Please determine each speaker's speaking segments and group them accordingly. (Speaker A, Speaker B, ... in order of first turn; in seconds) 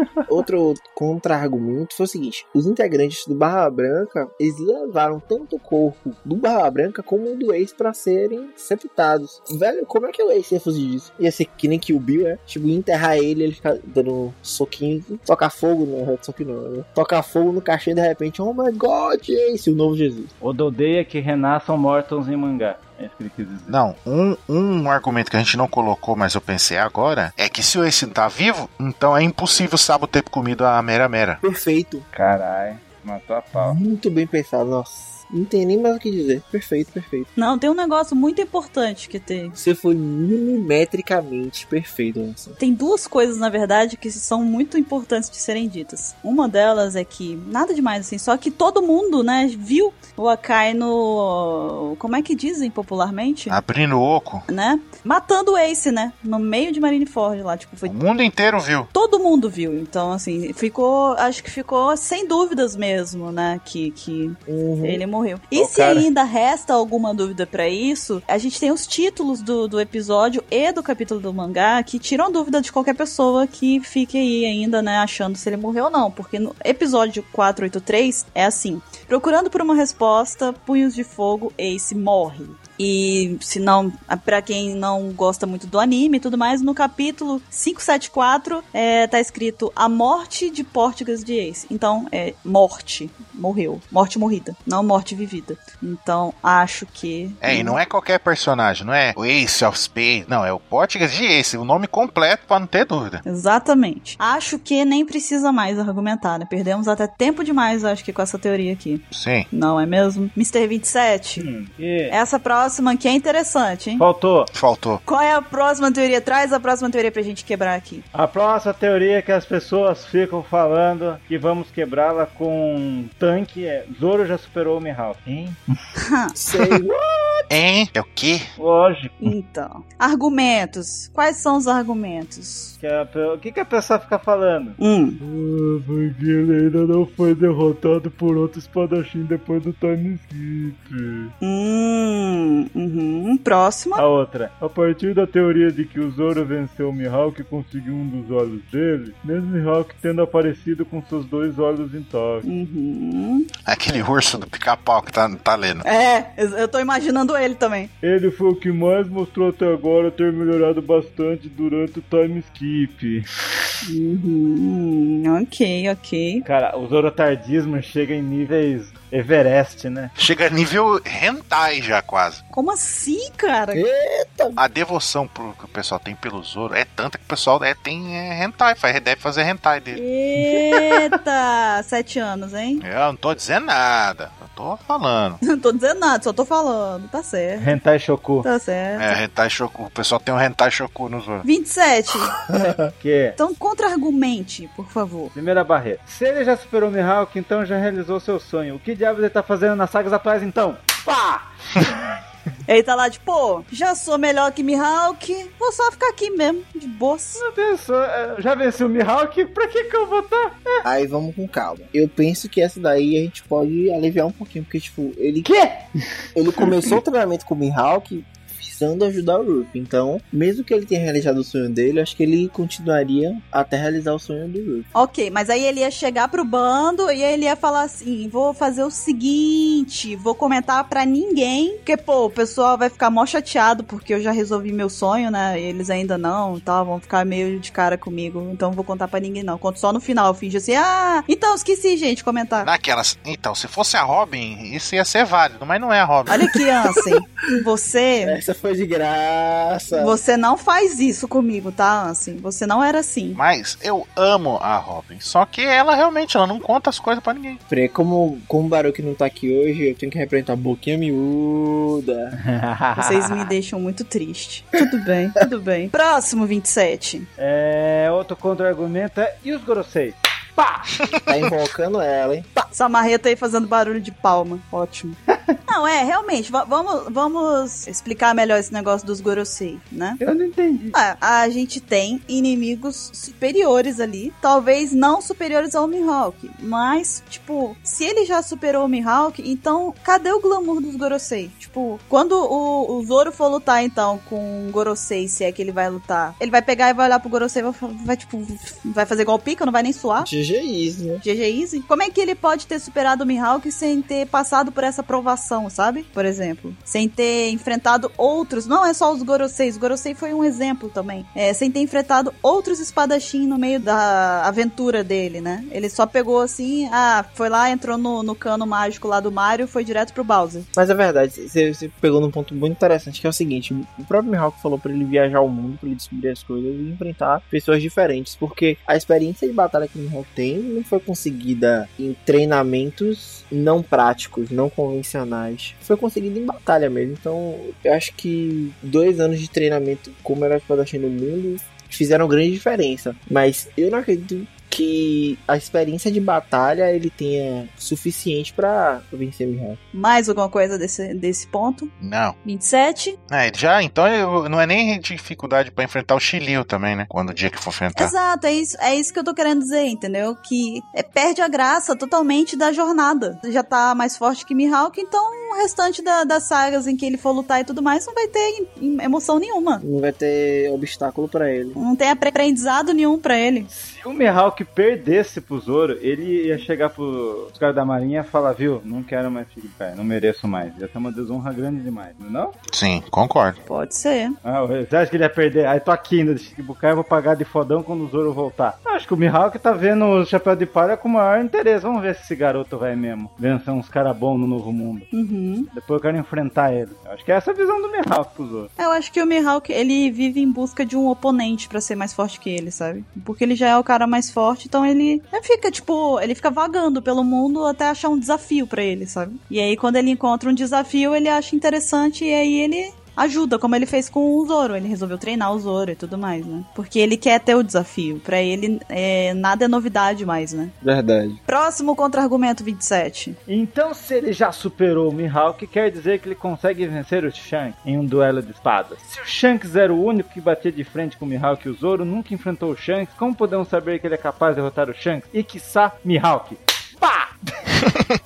Speaker A: 0.3-20.3, 31.4-32.0, 33.5-37.3, 39.5-42.5, 64.5-65.0, 126.3-127.5, 173.7-174.6, 192.5-192.9, 210.8-215.5, 216.3-224.9, 248.2-250.2, 257.7-262.3, 271.2-272.7, 300.2-301.2, 320.7-349.8, 369.8-371.8, 420.8-421.4
Speaker B: 20.4-23.8, 32.1-33.8, 65.5-66.0, 111.4-112.1, 114.0-114.5, 118.1-125.6, 128.6-129.3, 132.8-141.3, 143.9-152.4, 158.0-163.2, 166.4-170.1, 187.6-188.5, 193.0-193.4, 195.3-202.0, 207.4-210.6, 215.4-215.8, 262.4-263.5, 267.4-270.9, 280.2-280.9, 373.7-382.5, 384.4-395.1, 395.7-398.7, 423.5-437.3
Speaker C: 23.7-31.4, 53.5-54.5, 57.8-58.9, 97.4-103.2, 109.1-109.5, 114.5-115.0, 127.5-128.5, 153.7-155.8, 170.2-172.4, 174.6-180.0, 182.8-185.4, 189.0-191.4, 242.6-246.6, 253.3-257.6, 352.0-352.4, 353.3-358.1, 382.7-383.6
Speaker D: 37.4-39.5, 42.6-53.6, 54.5-57.9, 58.9-97.8, 103.2-111.5, 112.1-114.0, 115.0-118.0, 126.0-126.3, 129.2-132.8, 134.8-135.2, 141.4-144.0, 152.4-153.5, 155.8-157.9, 163.8-166.4, 172.5-173.8, 179.9-182.8, 185.4-187.7, 188.4-189.2, 191.4-192.3, 193.3-195.3, 202.7-207.4, 224.9-242.7, 246.3-248.4, 249.9-253.4, 262.9-267.3, 272.7-280.2, 280.9-300.3, 301.2-320.7, 349.9-351.9, 352.4-353.2, 357.9-369.8, 371.8-373.7, 383.7-384.4, 395.1-395.7, 398.8-420.7, 421.5-423.4